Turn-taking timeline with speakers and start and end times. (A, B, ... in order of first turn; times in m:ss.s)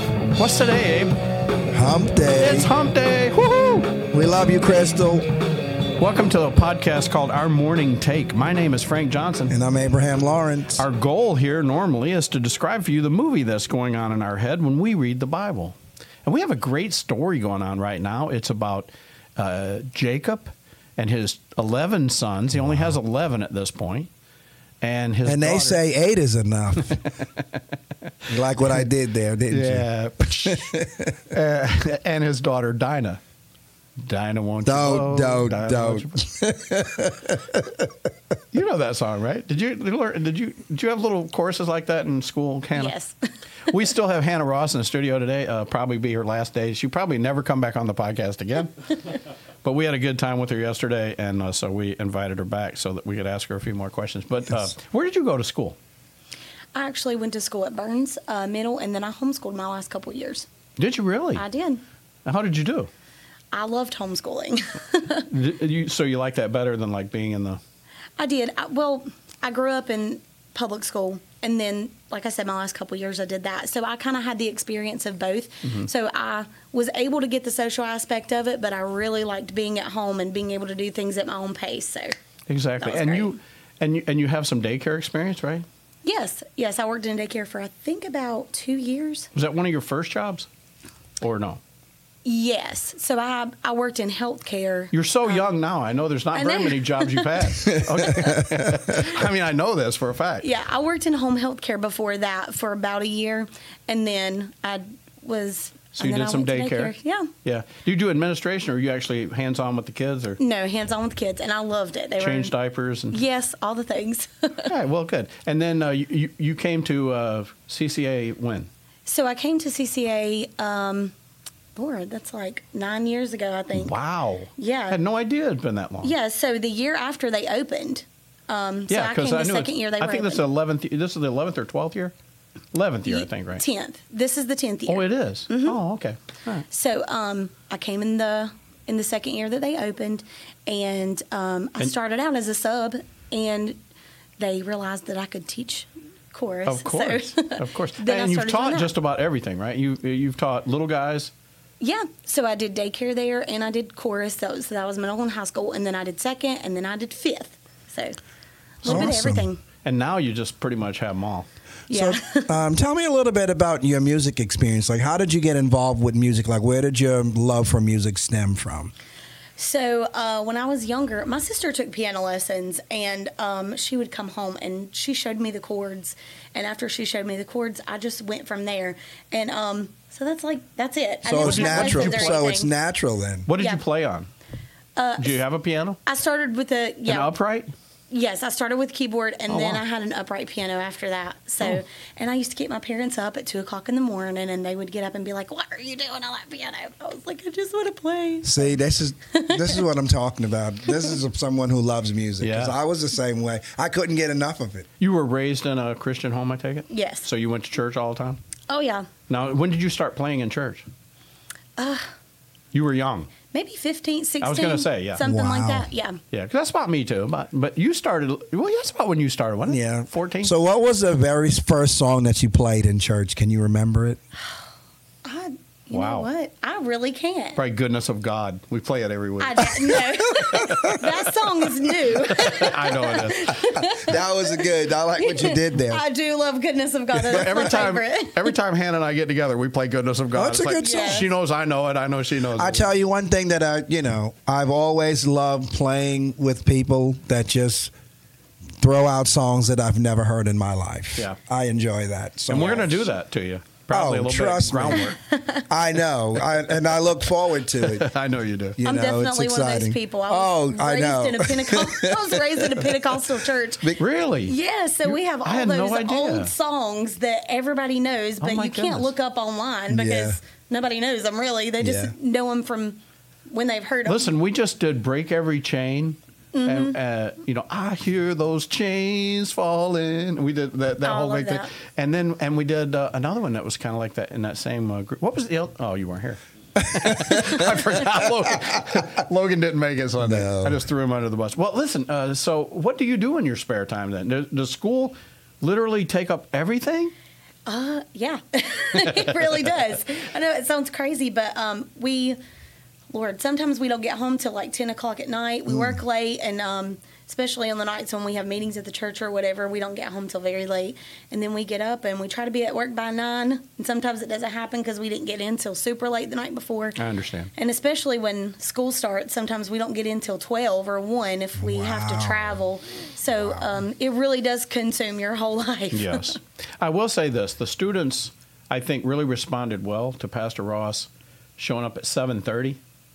0:00.4-0:01.2 A
0:01.7-0:02.7 B
0:02.4-0:04.0 A
0:04.1-0:05.3 B
0:06.0-0:09.5 A
0:09.5-0:10.8 B
0:10.8-0:24.1 A
0:24.8-0:25.8 A
0:25.2-0:27.0 B
0:26.8-0:27.6 A
0:28.3-0:29.9 B
0:28.3-0:28.9 A
0:29.5-0:30.8 A
0:30.4-0:31.2 B
0:31.3-0:33.2 A
0:34.0-0:36.2 A
0:34.6-0:37.9 B
0:38.5-0:43.0 A
0:42.7-0:43.2 C
0:43.7-0:55.8 A
0:56.7-1:00.5 C
1:00.8-1:01.4 A
1:01.4-1:01.8 C
1:02.2-1:02.9 A
1:03.5-1:05.3 C
1:05.3-1:07.6 A
1:08.2-1:22.2 C
1:22.5-1:25.7 A
1:22.8-1:23.4 C
1:26.0-1:29.3 C
1:29.4-1:30.5 A
1:31.2-1:31.6 A
1:32.2-1:35.5 C
1:34.9-1:40.5 A
1:36.3-1:38.4 C
1:38.2-1:38.8 B
1:40.4-1:47.3 C
1:46.0-1:50.4 A
1:50.4-1:52.5 C
1:52.2-1:53.2 A
1:53.1-1:54.7 C
1:54.7-1:58.7 A
1:59.1-2:01.1 C
2:01.8-2:04.0 C
2:03.7-2:06.1 A
2:04.6-2:05.0 C
2:06.0-2:10.4 C
2:08.9-2:12.1 A
2:12.7-2:13.6 A
2:13.1-2:15.8 C
2:14.9-2:16.6 A
2:16.7-2:23.8 C
2:24.4-2:28.9 C
2:26.7-2:31.3 A
2:31.8-2:38.2 C
2:38.8-2:39.6 C
2:38.8-2:39.1 A
2:38.8-2:39.5 B
2:39.8-2:41.5 A
2:41.9-2:42.5 C
2:41.9-2:48.9 B
2:49.6-3:02.7 C
3:01.2-3:03.5 B
3:01.4-3:02.4 A
3:03.5-3:04.3 A
3:05.0-3:05.4 C
3:05.2-3:06.0 A
3:06.1-3:07.3 C
3:07.1-3:07.7 A
3:08.1-3:18.7 C
3:09.5-3:09.8 A
3:18.4-3:24.9 B
3:19.3-3:19.8 C
3:22.4-3:22.8 A
3:25.0-3:28.4 A
3:26.9-3:27.3 C
3:28.7-3:29.1 C
3:29.3-3:30.8 A
3:31.8-3:32.1 C
3:32.7-3:33.3 A
3:33.5-3:36.2 C
3:34.4-3:35.2 A
3:35.2-3:35.9 B
3:36.3-3:40.5 A
3:39.7-3:44.2 B
3:45.2-3:47.6 C
3:45.9-3:46.3 A
3:47.6-3:50.0 A
3:49.4-3:58.5 C
3:50.4-3:50.8 B
3:50.7-3:51.1 A
3:52.3-3:53.6 A
3:53.9-3:56.0 B
3:57.3-4:02.9 A
3:57.3-3:57.8 B
4:00.3-4:01.3 B
4:00.8-4:01.3 C
4:02.6-4:07.9 B
4:08.8-4:13.1 B
4:12.5-4:15.2 A
4:13.9-4:15.1 B
4:15.2-4:15.6 C
4:15.7-4:18.1 B
4:17.8-4:18.8 A
4:18.8-4:23.0 B
4:18.8-4:23.9 C
4:24.0-4:26.5 A
4:24.4-4:34.4 C
4:28.4-4:29.1 A
4:29.9-4:30.4 B
4:31.8-4:32.1 B
4:34.1-4:57.1 A
4:36.5-4:37.0 C
4:41.0-4:41.7 C
4:50.2-4:50.8 B
4:57.7-5:02.4 C
5:03.1-5:17.0 C
5:17.0-5:17.5 A
5:17.6-5:26.4 C
5:21.6-5:22.6 B
5:25.9-5:32.8 A